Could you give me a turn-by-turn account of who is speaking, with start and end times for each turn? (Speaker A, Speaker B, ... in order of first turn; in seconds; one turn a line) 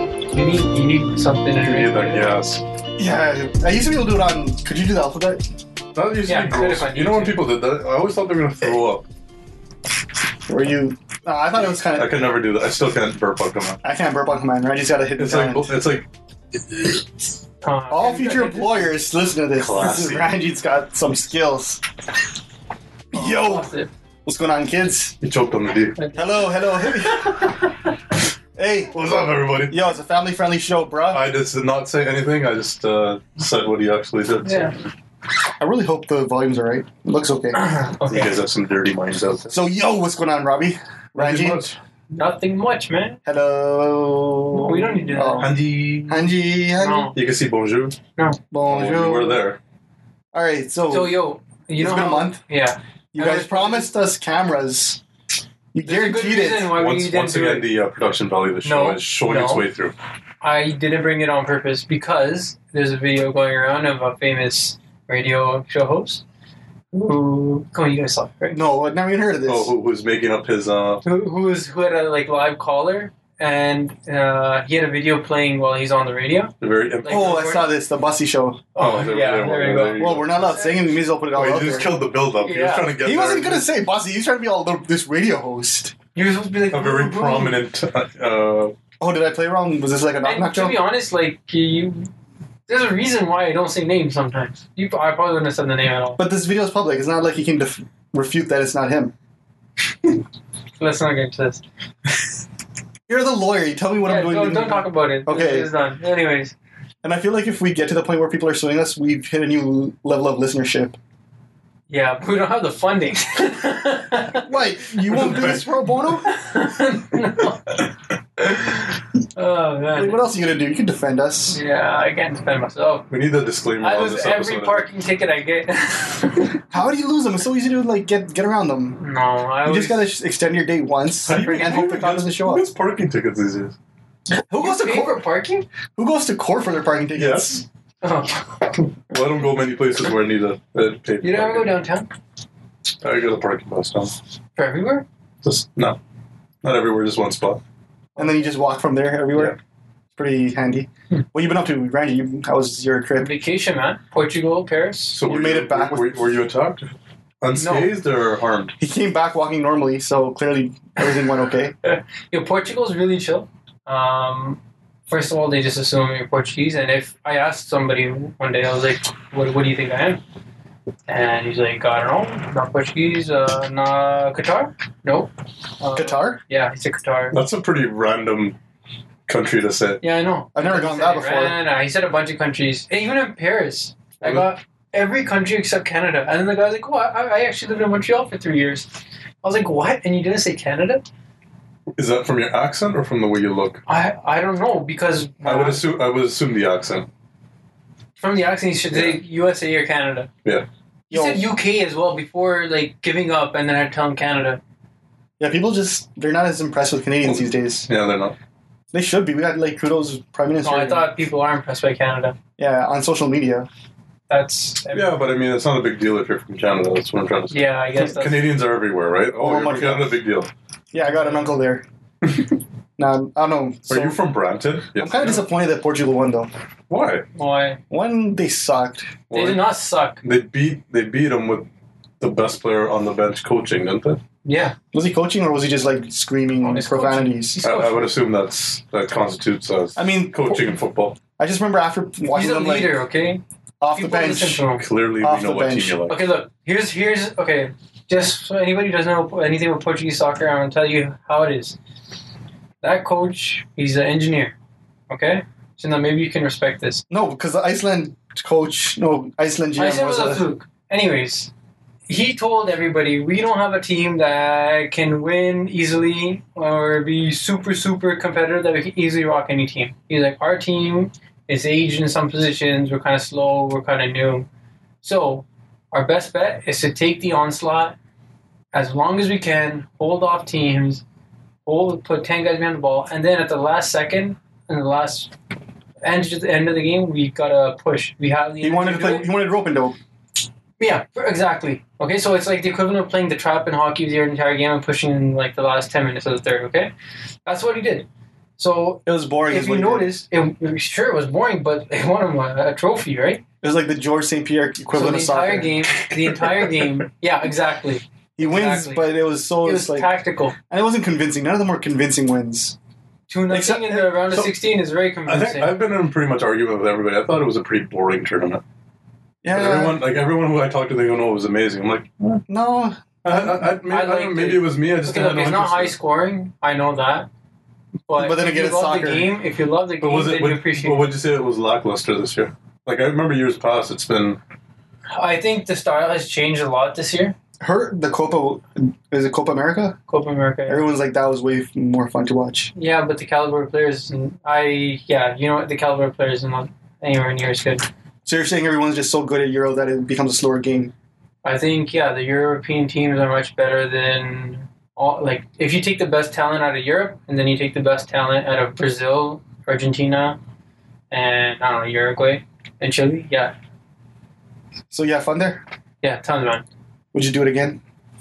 Speaker A: 0.3-2.3
Speaker B: 1.6-2.6
Speaker C: 3.0-5.4
Speaker B: 5.9-9.0
Speaker A: 6.2-7.4
Speaker C: 10.5-12.2
Speaker B: 11.9-13.8
Speaker C: 13.8-15.7
Speaker B: 15.2-16.1
Speaker B: 16.7-17.0
Speaker A: 17.6-18.9
Speaker C: 17.9-21.8
Speaker B: 19.5-20.3
Speaker C: 23.1-23.7
Speaker A: 23.1-23.9
Speaker C: 24.2-25.1
Speaker B: 25.2-26.0
Speaker A: 25.9-26.5
Speaker C: 26.1-27.7
Speaker C: 28.5-28.9
Speaker B: 28.9-29.9
Speaker C: 29.7-31.2
Speaker B: 31.1-34.8
Speaker A: 34.4-34.8
Speaker C: 35.6-37.6
Speaker A: 37.5-38.4
Speaker B: 38.0-39.6
Speaker C: 39.5-41.6
Speaker B: 41.1-41.8
Speaker A: 42.1-43.2
Speaker C: 43.2-47.1
Speaker A: 44.5-45.6
Speaker B: 45.4-46.4
Speaker A: 46.8-47.1
Speaker B: 47.1-48.0
Speaker C: 48.5-49.4
Speaker B: 48.6-49.6
Speaker C: 50.3-51.2
Speaker A: 50.9-53.9
Speaker C: 51.8-52.4
Speaker C: 53.1-55.0
Speaker C: 55.7-56.8
Speaker A: 55.8-57.7
Speaker B: 56.7-59.9
Speaker A: 58.6-59.7
Speaker A: 60.4-66.2
Speaker A: 66.9-68.7
Speaker C: 68.5-69.7
Speaker B: 69.5-71.0
Speaker A: 71.0-77.7
Speaker B: 76.6-77.4
Speaker C: 77.1-78.7
Speaker A: 78.7-80.8
Speaker B: 78.8-80.8
Speaker C: 80.0-82.0
Speaker B: 81.3-83.7
Speaker A: 82.3-82.9
Speaker C: 83.0-85.9
Speaker A: 86.1-87.6
Speaker B: 86.7-88.7
Speaker C: 89.0-90.8
Speaker A: 90.2-92.1
Speaker A: 92.7-96.2
Speaker C: 96.2-99.1
Speaker A: 100.8-101.6
Speaker C: 103.1-105.7
Speaker A: 104.0-106.5
Speaker C: 107.0-111.0
Speaker A: 111.9-114.5
Speaker C: 114.3-116.3
Speaker B: 115.1-115.7
Speaker A: 116.2-120.2
Speaker C: 120.0-121.6
Speaker A: 121.5-123.1
Speaker B: 123.1-124.9
Speaker A: 123.8-126.6
Speaker C: 126.7-129.0
Speaker A: 129.0-130.1
Speaker C: 129.6-132.7
Speaker B: 131.3-133.8
Speaker A: 131.3-131.7
Speaker C: 134.5-135.2
Speaker A: 134.5-135.7
Speaker C: 136.0-137.6
Speaker B: 137.1-137.6
Speaker A: 138.0-138.9
Speaker B: 139.1-141.8
Speaker A: 141.2-142.1
Speaker B: 143.0-144.1
Speaker A: 144.6-145.0
Speaker B: 145.4-146.0
Speaker B: 146.6-147.6
Speaker C: 148.2-149.6
Speaker A: 148.2-148.5
Speaker C: 150.2-153.3
Speaker A: 153.2-155.2
Speaker B: 155.1-156.9
Speaker C: 155.3-156.3
Speaker B: 157.4-158.7
Speaker A: 157.6-157.9
Speaker C: 158.8-161.7
Speaker A: 161.8-170.2
Speaker A: 171.1-177.4
Speaker C: 175.9-176.4
Speaker B: 177.3-178.6
Speaker B: 179.3-180.0
Speaker A: 180.0-188.9
Speaker C: 180.5-181.6
Speaker B: 184.2-184.5
Speaker A: 189.4-191.0
Speaker B: 191.9-193.8
Speaker A: 193.9-195.8
Speaker B: 195.4-197.1
Speaker A: 198.2-200.3
Speaker B: 198.9-199.2
Speaker C: 201.1-201.4
Speaker A: 201.1-204.6
Speaker C: 205.4-207.9
Speaker B: 207.2-208.3
Speaker C: 208.9-211.1
Speaker A: 210.6-212.3
Speaker C: 212.6-213.7
Speaker A: 214.3-215.1
Speaker B: 214.9-220.5
Speaker A: 217.5-218.5
Speaker C: 219.4-220.2
Speaker C: 220.9-221.8
Speaker A: 221.0-221.6
Speaker B: 222.2-222.5
Speaker C: 223.0-224.2
Speaker B: 223.9-225.4
Speaker C: 224.9-226.5
Speaker B: 226.9-227.2
Speaker A: 227.3-227.8
Speaker C: 227.9-229.2
Speaker B: 229.3-229.6
Speaker A: 229.3-230.2
Speaker B: 230.2-231.7
Speaker B: 232.2-234.2
Speaker A: 234.4-234.8
Speaker C: 234.9-237.6
Speaker A: 236.6-238.1
Speaker B: 237.6-241.2
Speaker C: 239.9-240.8
Speaker C: 241.4-242.9
Speaker A: 242.3-244.9
Speaker C: 243.8-244.6
Speaker B: 244.8-246.2
Speaker C: 245.2-246.0
Speaker A: 246.1-251.8
Speaker A: 252.8-254.5
Speaker A: 255.1-257.0
Speaker C: 257.1-260.5
Speaker A: 259.8-261.5
Speaker A: 262.1-274.5
Speaker A: 275.0-278.0
Speaker A: 278.7-281.0
Speaker A: 281.6-285.3
Speaker A: 286.0-289.3
Speaker C: 288.6-289.9
Speaker A: 290.8-296.9
Speaker A: 297.4-298.1
Speaker A: 298.6-303.4
Speaker C: 299.1-300.1
Speaker C: 303.6-305.8
Speaker A: 304.9-310.5
Speaker C: 308.4-310.1
Speaker C: 310.7-312.8
Speaker A: 313.3-315.7
Speaker C: 313.5-314.2
Speaker B: 315.2-318.6
Speaker C: 319.4-320.0
Speaker B: 319.5-322.4
Speaker C: 322.5-323.7
Speaker B: 323.2-325.9
Speaker A: 323.9-327.3
Speaker A: 328.1-331.1
Speaker C: 328.1-329.3
Speaker B: 330.0-334.4
Speaker A: 335.1-337.3
Speaker C: 337.6-340.0
Speaker A: 340.1-340.9
Speaker C: 340.7-342.7
Speaker A: 342.7-347.9
Speaker C: 348.2-350.9
Speaker A: 351.4-360.4
Speaker A: 361.1-363.5
Speaker C: 364.9-365.6
Speaker A: 366.0-366.6
Speaker C: 367.1-367.8